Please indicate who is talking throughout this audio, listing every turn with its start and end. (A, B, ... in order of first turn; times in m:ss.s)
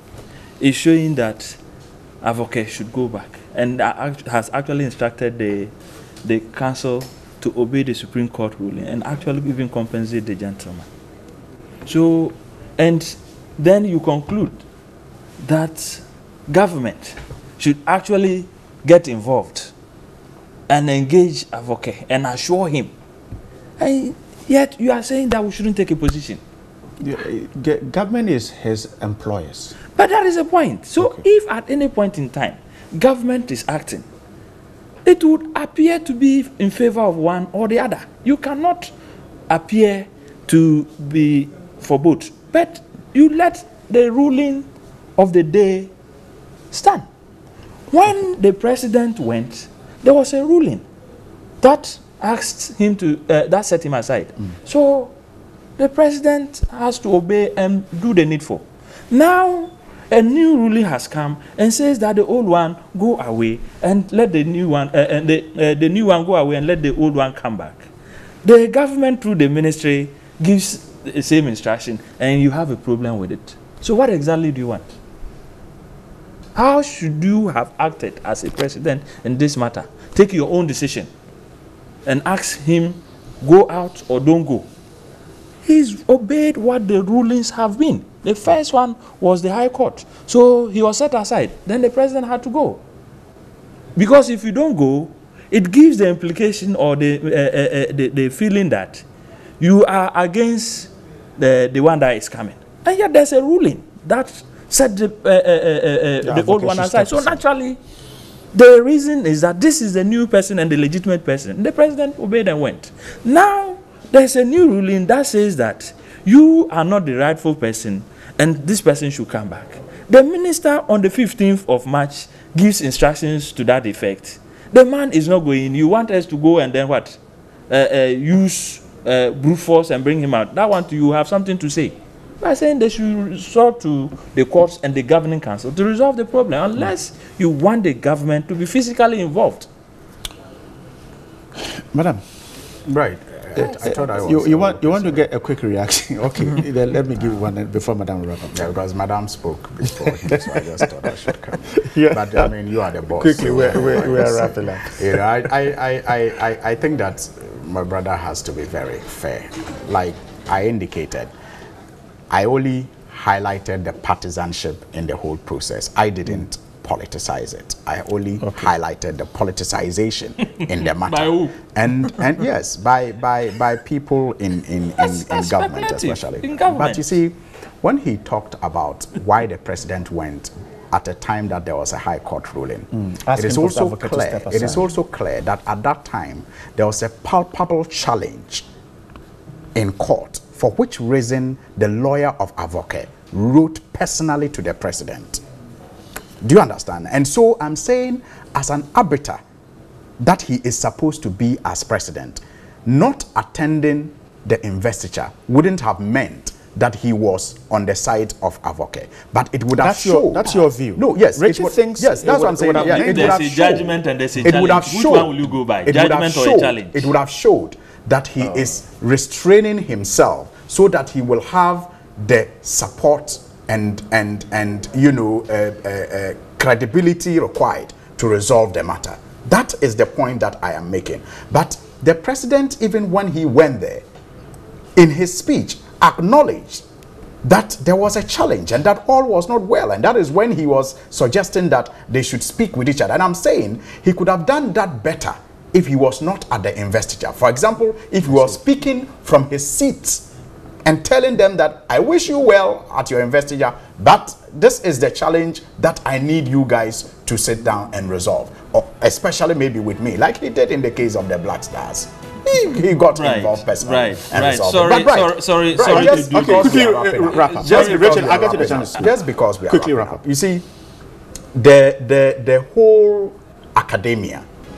0:00.6-0:01.6 A
0:02.2-0:05.7 A
0:06.2-0:10.9 A
0:11.9-0:14.6 A
0:15.4-0:19.7 A
0:20.7-0:22.9 A
0:23.8-0:26.4 A
0:27.0-0:29.8 B
0:30.0-0:34.1 A
0:35.0-0:38.9 A
0:39.5-0:45.9 A
0:46.7-0:47.1 A
0:47.9-0:50.8 A
0:51.6-0:55.1 A
0:55.8-1:07.9 A
1:08.4-1:14.9 A
1:16.6-1:21.1 A
1:22.0-1:24.7 A
1:25.6-1:32.8 A
1:34.0-1:39.0 A
1:39.6-1:47.8 A
1:46.2-1:47.4 B
1:48.5-2:19.7 A
2:21.6-2:22.2 B
2:22.9-2:25.2 C
2:23.6-2:28.7 B
2:28.5-2:41.3 C
2:29.9-2:31.1 B
2:31.7-2:32.5 B
2:33.1-2:35.2 B
2:42.3-3:08.7 C
2:48.4-2:48.7 B
2:51.0-2:51.6 A
2:55.0-2:57.1 A
3:02.9-3:04.9 B
3:09.7-3:15.4 C
3:16.4-3:19.4 C
3:20.2-3:33.5 C
3:29.8-3:33.9 B
3:32.7-3:37.1 A
3:34.4-3:54.0 C
3:55.0-3:56.8 C
3:57.4-4:10.3 C
4:10.8-4:30.7 C
4:23.1-4:28.9 A
4:25.9-4:29.1 B
4:29.7-4:30.2 B
4:31.6-4:34.4 C